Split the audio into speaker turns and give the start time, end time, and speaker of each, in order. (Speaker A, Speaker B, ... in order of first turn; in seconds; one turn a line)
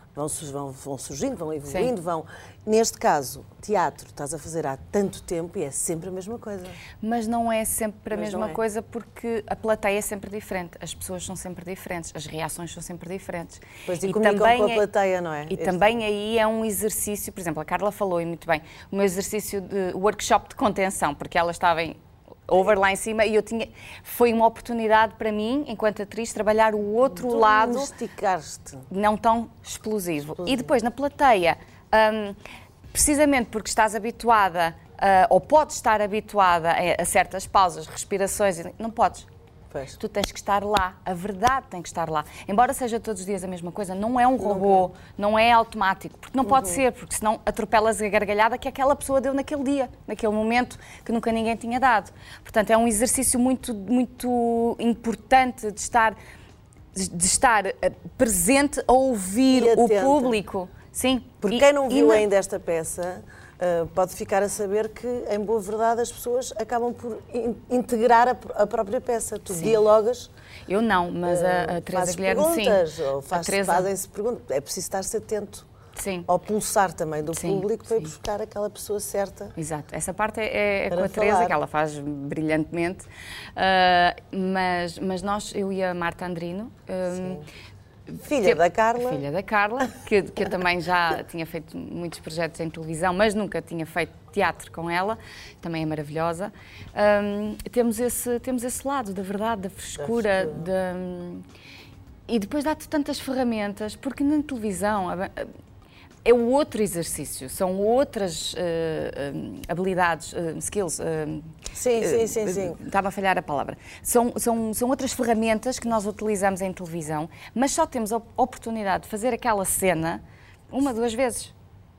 Speaker A: 0.1-6.8
Speaker B: 1.7-1.9
Speaker B: 7.0-14.8
Speaker A: 8.1-8.6
Speaker A: 13.9-16.0
Speaker B: 15.5-27.9
Speaker A: 27.1-28.9
Speaker B: 28.9-32.4
Speaker A: 30.4-30.7
Speaker B: 32.9-39.3
Speaker A: 39.7-40.0
Speaker B: 40.0-56.2
Speaker A: 44.4-44.9
Speaker A: 46.5-46.8
Speaker B: 56.9-62.2
Speaker A: 59.5-60.4
Speaker A: 61.4-70.3
Speaker B: 69.5-69.8
Speaker B: 70.7-73.9
Speaker A: 71.2-75.7
Speaker B: 76.0-76.3
Speaker A: 76.3-79.5
Speaker B: 77.3-78.1
Speaker B: 79.6-87.4
Speaker A: 80.9-81.6
Speaker A: 87.1-87.4
Speaker B: 88.1-101.5
Speaker A: 88.2-89.2
Speaker A: 100.0-100.7
Speaker B: 102.3-105.5
Speaker B: 106.2-121.5
Speaker A: 111.8-112.8